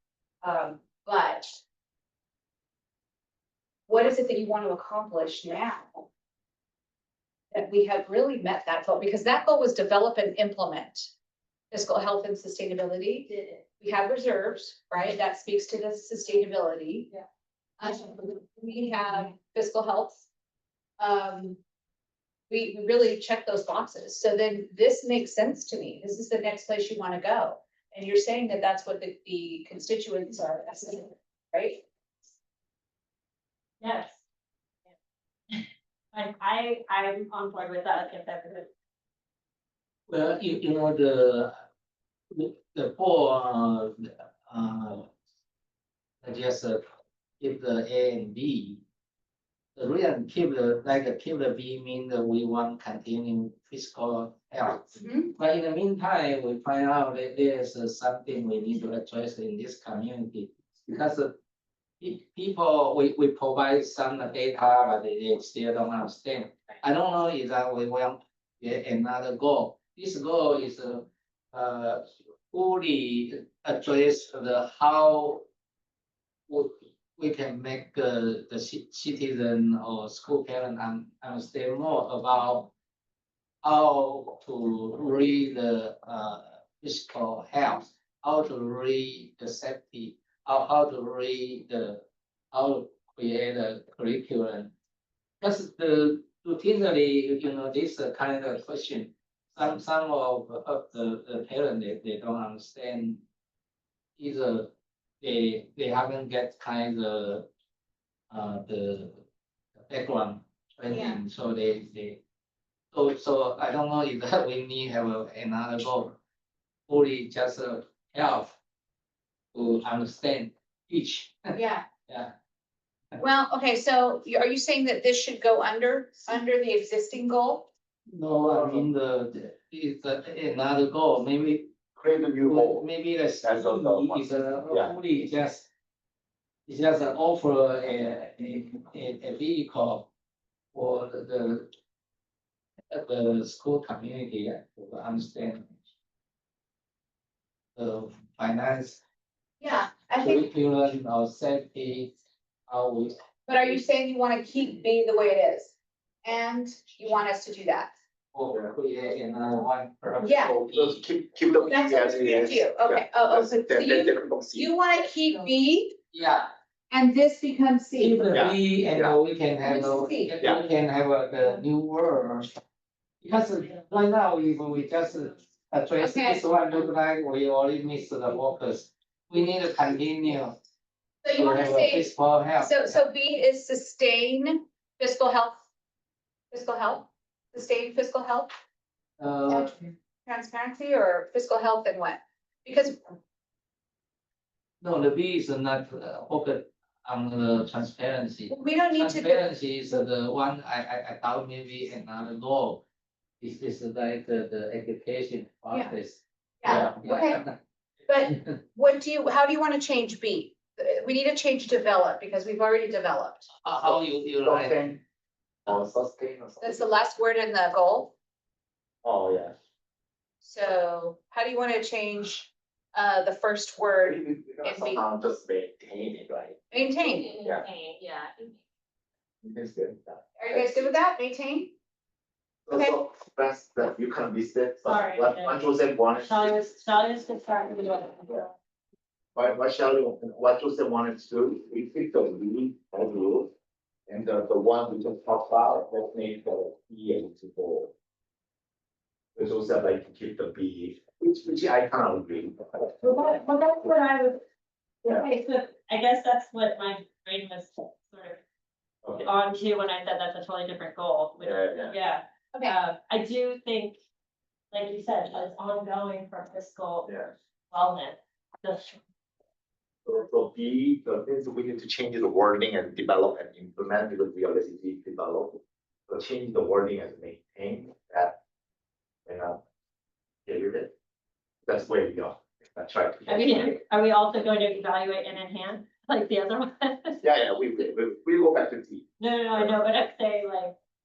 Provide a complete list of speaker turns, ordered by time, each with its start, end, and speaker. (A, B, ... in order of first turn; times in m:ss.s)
0:00.4-0:01.6 A
0:03.9-0:06.0 A
0:07.5-0:11.1 A
0:11.7-0:17.1 A
0:13.3-0:13.6 B
0:17.8-0:20.3 A
0:21.0-0:21.6 A
0:22.5-0:31.8 A
0:33.8-0:34.2 B
0:35.5-0:38.7 B
0:40.1-0:41.5 C
0:42.3-0:45.1 C
0:46.2-0:46.8 C
0:47.4-0:48.8 C
0:49.8-1:01.4 C
0:54.9-0:55.3 A
1:02.0-1:15.4 C
1:16.5-1:22.7 C
1:23.6-1:34.7 C
1:35.4-1:43.2 C
1:44.2-1:47.5 C
1:48.3-1:49.2 C
1:49.9-1:52.2 C
1:50.9-1:51.2 A
1:52.9-1:56.2 C
1:56.9-1:58.6 C
1:59.5-2:01.4 C
2:01.5-2:01.8 A
2:02.1-2:02.3 C
2:03.2-2:07.7 A
2:08.1-2:11.8 C
2:08.4-2:08.8 D
2:11.9-2:12.8 D
2:12.4-2:15.7 C
2:13.4-2:14.9 D
2:16.7-2:20.1 C
2:20.7-2:21.7 C
2:22.9-2:25.7 C
2:27.8-2:29.0 C
2:29.6-2:30.4 A
2:30.2-2:32.2 C
2:32.7-2:33.1 C
2:33.5-2:35.7 A
2:36.2-2:37.9 A
2:38.3-2:41.0 C
2:40.2-2:40.6 A
2:40.4-2:44.7 D
2:41.5-2:46.0 A
2:46.1-2:46.5 C
2:46.9-2:48.3 A
2:48.0-2:52.5 C
2:48.3-2:49.2 D
2:49.6-2:50.4 A
2:53.2-3:00.6 C
2:56.0-2:56.4 A
3:01.2-3:05.6 A
3:01.3-3:03.0 C
3:06.5-3:08.5 A
3:09.2-3:09.7 C
3:09.5-3:13.0 A
3:14.8-3:22.8 C
3:18.5-3:19.4 A
3:23.4-3:27.6 C
3:26.6-3:27.4 A
3:28.1-3:33.5 A
3:28.2-3:28.5 C
3:33.6-3:34.8 C
3:33.8-3:35.0 D
3:35.6-3:36.8 D
3:36.6-3:38.1 A
3:39.0-3:39.6 D
3:40.4-3:45.0 A
3:44.0-3:46.6 D
3:46.7-3:47.4 A
3:47.3-3:48.6 B
3:49.4-3:50.8 D
3:50.4-3:51.7 A
3:52.6-3:56.6 D
3:52.7-3:53.0 A
3:54.8-3:55.6 B
3:56.2-3:58.5 B
3:59.3-4:03.5 D
4:04.1-4:07.9 D
4:09.3-4:12.9 D
4:13.0-4:14.4 B
4:15.0-4:18.4 B
4:19.0-4:19.3 D
4:19.2-4:24.0 B
4:21.4-4:21.9 D
4:24.7-4:27.1 B
4:27.0-4:27.3 D
4:27.7-4:29.0 B
4:30.0-4:38.4 D
4:39.2-4:39.6 D
4:40.4-4:40.9 D
4:41.6-4:43.7 D
4:43.3-4:47.2 B
4:47.2-4:49.7 D
4:49.2-4:50.7 B